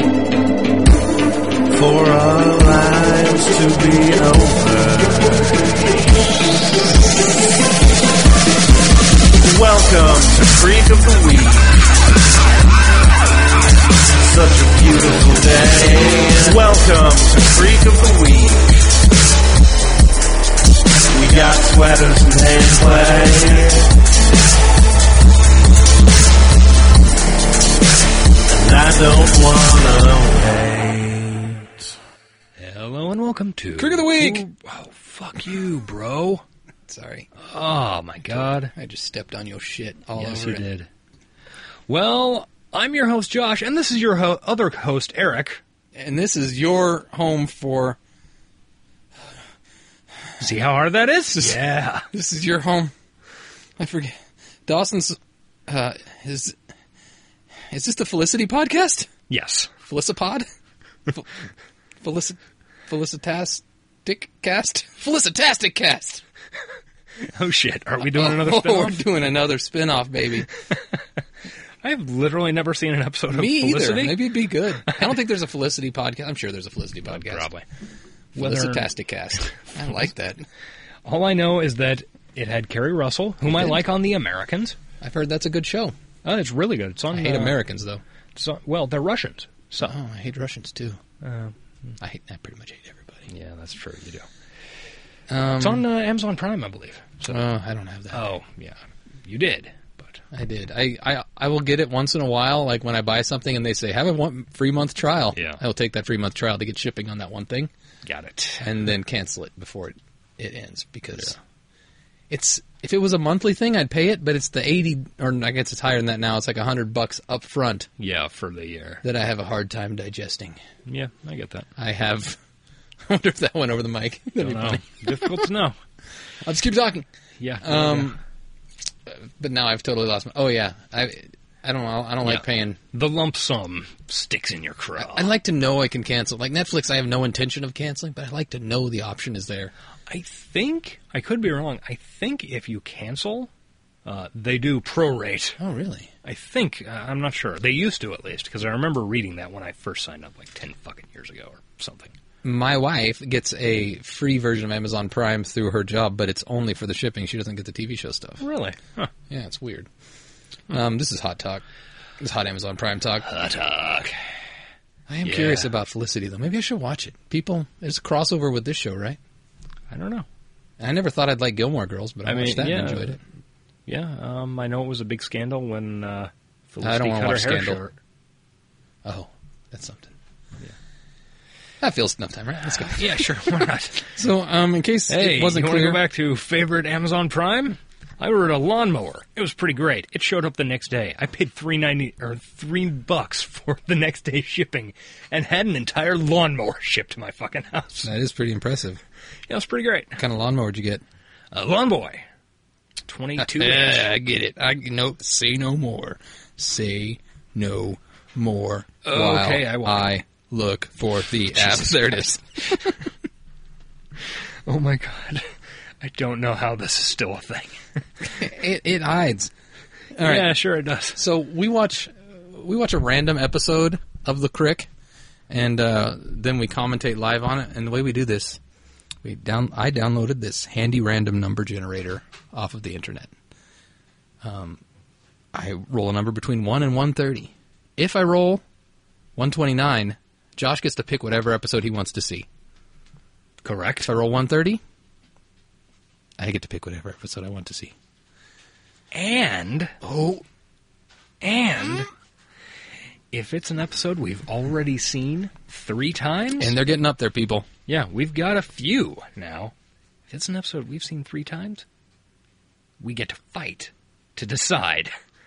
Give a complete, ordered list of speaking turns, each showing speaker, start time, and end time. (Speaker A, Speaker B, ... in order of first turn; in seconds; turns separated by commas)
Speaker A: 1.7-6.1, Speaker A: 9.4-11.8, Speaker A: 14.2-18.8, Speaker A: 21.1-23.9, Speaker A: 28.5-31.9, Speaker B: 32.6-36.4, Speaker C: 33.8-34.5, Speaker C: 36.9-37.3, Speaker B: 37.4-38.7, Speaker C: 38.2-40.7, Speaker B: 40.2-40.9, Speaker B: 41.9-45.6, Speaker C: 46.0-48.0, Speaker B: 50.4-52.1, Speaker C: 52.1-52.9, Speaker C: 53.8-54.1, Speaker C: 54.7-56.6, Speaker C: 57.7-59.1, Speaker B: 59.3-59.7, Speaker C: 59.8-60.5, Speaker C: 61.1-61.5, Speaker C: 62.0-66.2, Speaker B: 67.2-69.1, Speaker C: 68.0-70.5, Speaker B: 71.8-75.0, Speaker C: 73.3-77.5, Speaker B: 77.1-77.7, Speaker B: 78.3-78.9, Speaker C: 78.3-80.5, Speaker B: 81.0-84.8, Speaker C: 83.5-83.8, Speaker C: 85.0-86.0, Speaker B: 86.2-87.6, Speaker C: 87.1-88.0, Speaker B: 88.3-90.0, Speaker C: 89.8-91.0, Speaker B: 91.2-91.5, Speaker C: 92.0-93.3, Speaker B: 93.3-94.3, Speaker C: 95.3-95.9, Speaker B: 95.6-97.5, Speaker C: 97.3-98.3, Speaker B: 98.1-100.2, Speaker C: 100.3-107.7, Speaker B: 105.3-105.6, Speaker B: 108.0-108.8, Speaker C: 108.6-111.4, Speaker C: 112.3-117.9, Speaker B: 118.0-119.0, Speaker C: 119.0-120.6, Speaker B: 120.9-121.7, Speaker C: 121.8-122.4, Speaker C: 123.0-125.5, Speaker B: 124.4-125.8, Speaker C: 126.4-127.1, Speaker B: 127.4-128.2, Speaker C: 127.6-128.2, Speaker C: 129.1-132.8, Speaker B: 132.2-135.3, Speaker C: 135.0-139.7, Speaker B: 140.1-143.5, Speaker B: 144.1-145.6, Speaker C: 145.6-146.1, Speaker B: 146.2-152.2, Speaker C: 152.4-158.4, Speaker B: 158.4-159.1, Speaker C: 159.3-159.9, Speaker C: 160.7-161.7, Speaker C: 162.2-163.3, Speaker B: 163.2-164.2, Speaker C: 165.1-169.2, Speaker B: 165.2-165.7, Speaker B: 169.9-170.3, Speaker C: 170.8-173.2, Speaker B: 172.3-173.2, Speaker B: 173.9-177.9, Speaker C: 176.8-177.8, Speaker C: 179.0-180.2, Speaker C: 181.8-186.0, Speaker B: 182.8-184.2, Speaker B: 185.1-198.1, Speaker C: 198.0-199.0, Speaker B: 199.5-200.2, Speaker C: 200.2-201.0, Speaker B: 201.5-202.2, Speaker B: 203.1-204.1, Speaker C: 203.4-213.1, Speaker B: 209.0-210.2, Speaker B: 211.5-212.2, Speaker B: 214.7-218.0, Speaker C: 218.2-219.5, Speaker C: 220.1-220.6, Speaker B: 220.2-221.2, Speaker C: 221.2-224.9, Speaker C: 225.5-228.6, Speaker C: 229.2-233.3, Speaker C: 234.4-234.8, Speaker C: 235.5-238.6, Speaker C: 239.4-242.5, Speaker B: 243.6-244.1, Speaker C: 244.0-244.8, Speaker C: 246.4-247.9, Speaker B: 249.1-250.0, Speaker C: 250.0-250.4, Speaker B: 251.4-252.1, Speaker B: 253.3-256.8, Speaker C: 256.6-257.7, Speaker B: 257.9-259.7, Speaker B: 260.3-261.9, Speaker B: 263.0-265.1